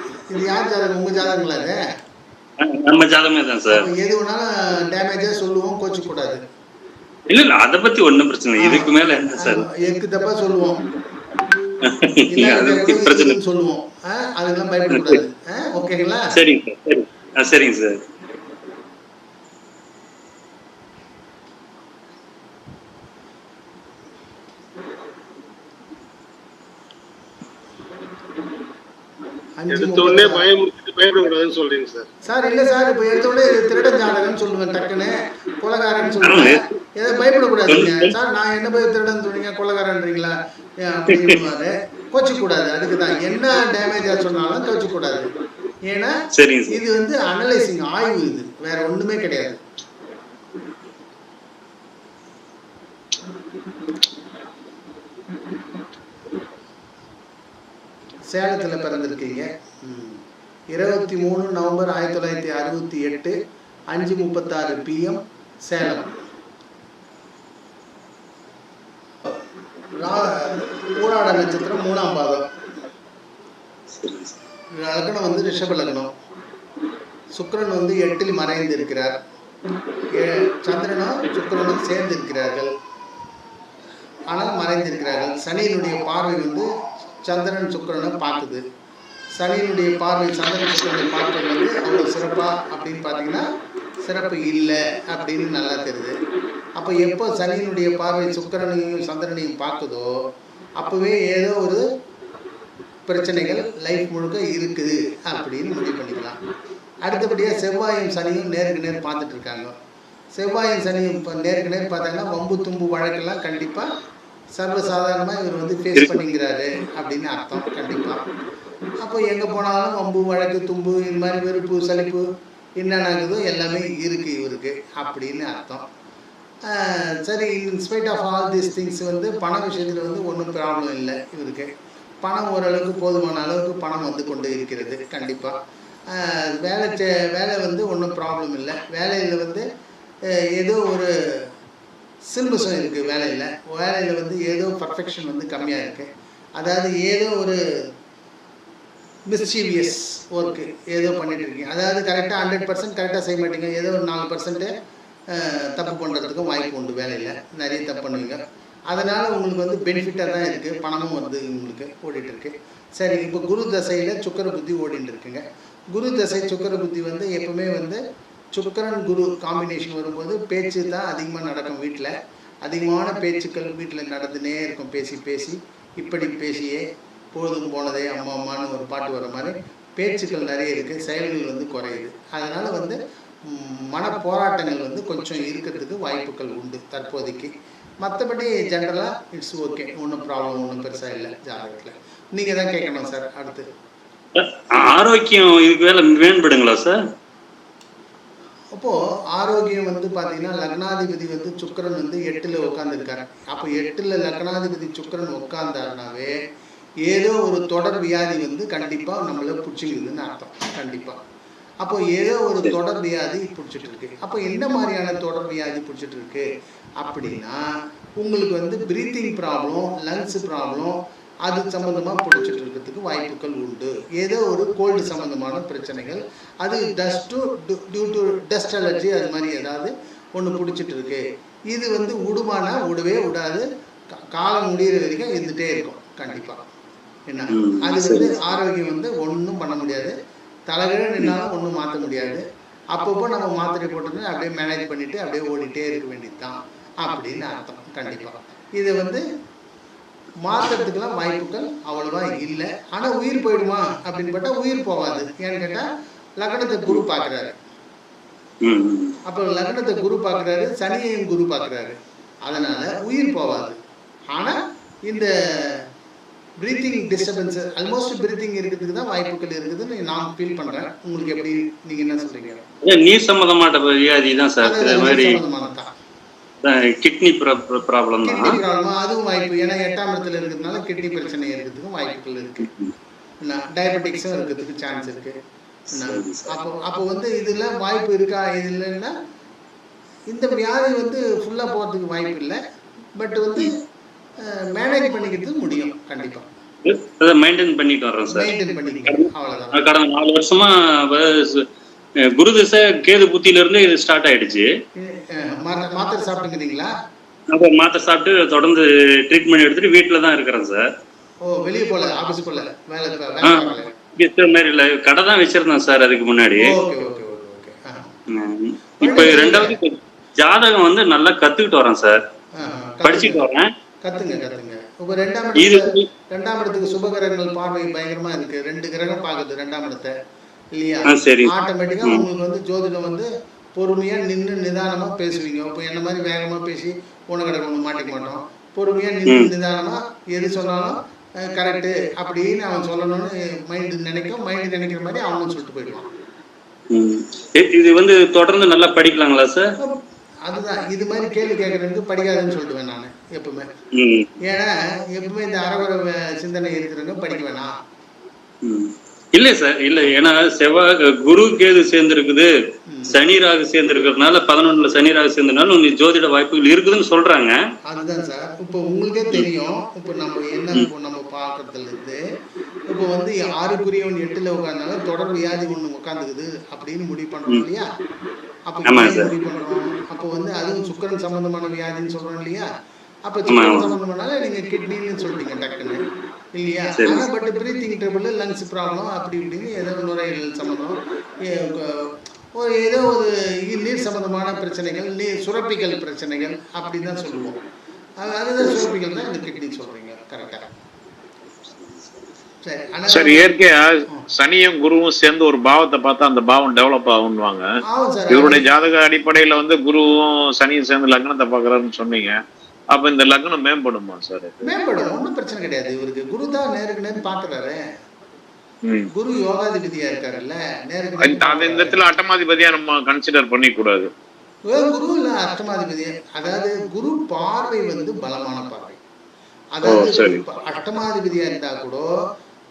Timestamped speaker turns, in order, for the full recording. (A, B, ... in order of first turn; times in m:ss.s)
0:00.3-0:01.8 A
0:02.6-0:03.8 B
0:03.7-0:06.4 A
0:07.3-0:09.6 B
0:08.6-0:10.8 A
0:11.8-0:13.4 B
0:12.3-0:16.3 A
0:14.9-0:15.2 B
0:16.3-0:18.0 B
0:29.6-0:30.5 A
0:29.7-0:32.1 C
0:32.2-0:45.3 A
0:36.2-0:36.6 B
0:37.7-0:38.1 B
0:46.3-0:46.8 B
0:46.7-0:49.6 A
0:58.3-1:00.2 A
1:00.7-1:03.4 A
1:03.9-1:06.2 A
1:10.0-1:12.5 A
1:13.9-1:14.3 B
1:14.8-1:16.1 A
1:17.3-1:19.2 A
1:20.2-1:22.7 A
1:24.3-1:26.7 A
1:27.2-1:28.6 A
1:29.4-1:33.4 A
1:34.0-1:36.2 A
1:36.8-1:40.1 A
1:40.8-1:41.8 A
1:43.0-1:46.4 A
1:47.0-1:49.7 A
1:50.4-1:53.9 A
1:54.6-1:58.2 A
1:55.9-1:56.2 B
1:59.0-2:02.2 A
2:02.8-2:05.8 A
2:06.6-2:11.7 A
2:12.2-2:15.6 A
2:16.1-2:19.6 A
2:20.6-2:21.1 A
2:22.3-2:27.6 A
2:29.3-2:34.7 A
2:35.3-2:48.0 A
2:48.5-2:52.1 A
2:52.6-3:07.5 A
3:08.0-3:13.7 A
3:14.3-3:17.0 B
3:18.7-3:26.3 A
3:27.0-3:31.2 A
3:31.8-3:36.5 A
3:37.0-3:37.6 A
3:38.2-3:53.6 A
3:54.3-3:56.6 A
3:57.3-4:00.1 A
3:57.5-3:58.3 B
4:00.7-4:09.2 A
4:10.4-4:15.8 A
4:16.4-4:17.6 A
4:18.6-4:19.1 B
4:19.3-4:23.8 A
4:24.3-4:25.8 A
4:26.6-4:32.6 A
4:32.8-4:35.4 B
4:34.6-4:35.9 A
4:36.6-4:38.6 B
4:38.2-4:42.7 A
4:42.6-4:42.9 B
4:43.4-4:45.4 A
4:45.9-4:46.6 B
4:45.9-4:49.1 A
4:50.3-4:52.6 A
4:53.2-4:53.7 A
4:54.4-4:56.5 A
4:56.8-4:58.5 B
4:58.3-4:59.8 A
4:59.1-5:01.6 B
5:02.3-5:04.7 B
5:05.0-5:06.9 A
5:07.5-5:10.8 B
5:11.4-5:13.9 A
5:14.2-5:16.7 B
5:16.6-5:18.1 A
5:18.3-5:22.2 B
5:19.0-5:19.8 A
5:22.6-5:23.4 A
5:23.0-5:23.7 B
5:24.0-5:30.1 A
5:25.6-5:26.0 B
5:30.7-5:46.1 A
5:31.1-5:32.2 B
5:46.9-5:49.7 B
5:49.8-5:53.7 A
5:53.9-5:54.3 B
5:54.4-5:57.7 A
5:58.6-6:02.5 B
6:02.9-6:03.2 A
6:03.1-6:07.6 B
6:07.9-6:12.2 A
6:12.9-6:17.8 A
6:18.7-6:22.7 A
6:18.9-6:19.3 B
6:23.2-6:26.0 A
6:23.5-6:23.9 B
6:26.5-6:37.6 A
6:27.0-6:27.2 B
6:38.2-6:40.7 A
6:41.8-6:42.0 B
6:42.6-6:43.5 A
6:43.1-6:47.7 D
6:47.9-6:48.6 A
6:48.3-6:52.4 D
6:52.9-6:54.6 D
6:54.6-6:57.8 A
6:59.1-7:02.0 A
7:01.2-7:04.1 D
7:04.7-7:09.0 A
7:09.8-7:12.0 A
7:09.8-7:10.4 D